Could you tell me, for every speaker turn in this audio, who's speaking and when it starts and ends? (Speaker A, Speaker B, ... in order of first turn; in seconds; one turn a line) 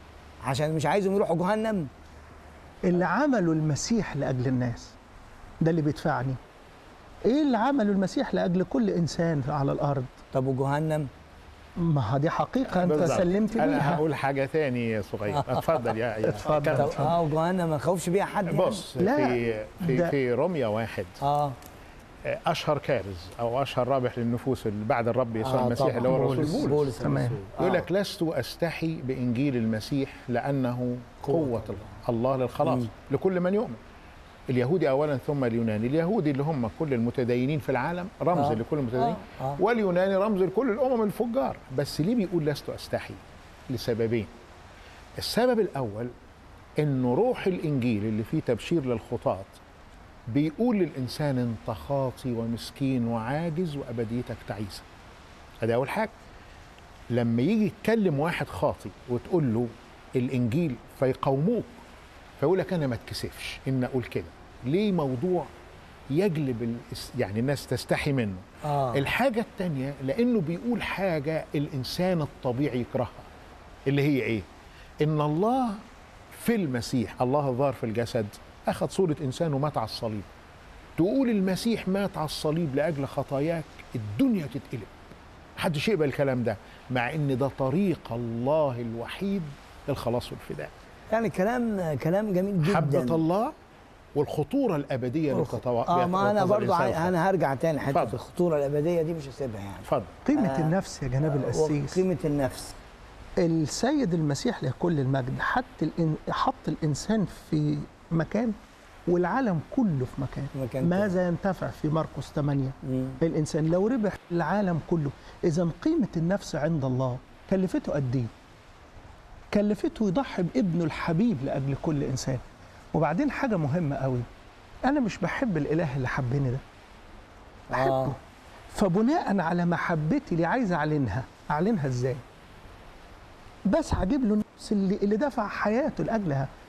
Speaker A: 0.4-1.9
Speaker B: 2.8-5.0
Speaker B: 5.6-6.4
Speaker B: 7.2-10.1
Speaker A: 10.3-11.1
Speaker B: 11.8-14.0
Speaker C: 12.8-17.1
Speaker A: 15.3-15.8
Speaker B: 16.3-17.1
Speaker A: 16.6-18.8
Speaker C: 18.5-21.1
Speaker B: 19.0-20.1
Speaker A: 21.2-21.6
Speaker C: 22.2-26.9
Speaker A: 25.4-27.9
Speaker B: 26.0-27.4
Speaker C: 27.6-33.8
Speaker A: 31.2-31.9
Speaker A: 32.6-32.9
Speaker C: 34.5-44.3
Speaker A: 38.3-39.6
Speaker C: 45.2-46.1
Speaker C: 46.8-49.6
Speaker C: 50.3-54.8
Speaker C: 55.6-56.1
Speaker C: 57.1-61.7
Speaker C: 62.4-65.5
Speaker C: 66.1-73.2
Speaker A: 68.6-69.0
Speaker C: 73.9-74.5
Speaker C: 75.0-75.8
Speaker C: 76.3-80.2
Speaker C: 81.0-84.9
Speaker C: 85.6-90.7
Speaker A: 91.1-93.2
Speaker C: 92.6-93.5
Speaker C: 94.2-97.1
Speaker A: 95.3-100.7
Speaker C: 99.8-100.2
Speaker B: 100.2-102.0
Speaker A: 101.3-102.7
Speaker B: 103.4-108.5
Speaker B: 109.1-118.3
Speaker A: 110.5-111.2
Speaker A: 112.8-113.2
Speaker B: 119.5-124.2
Speaker B: 124.8-126.6
Speaker A: 127.7-128.1
Speaker B: 127.7-128.2
Speaker B: 128.7-132.2
Speaker B: 133.7-136.5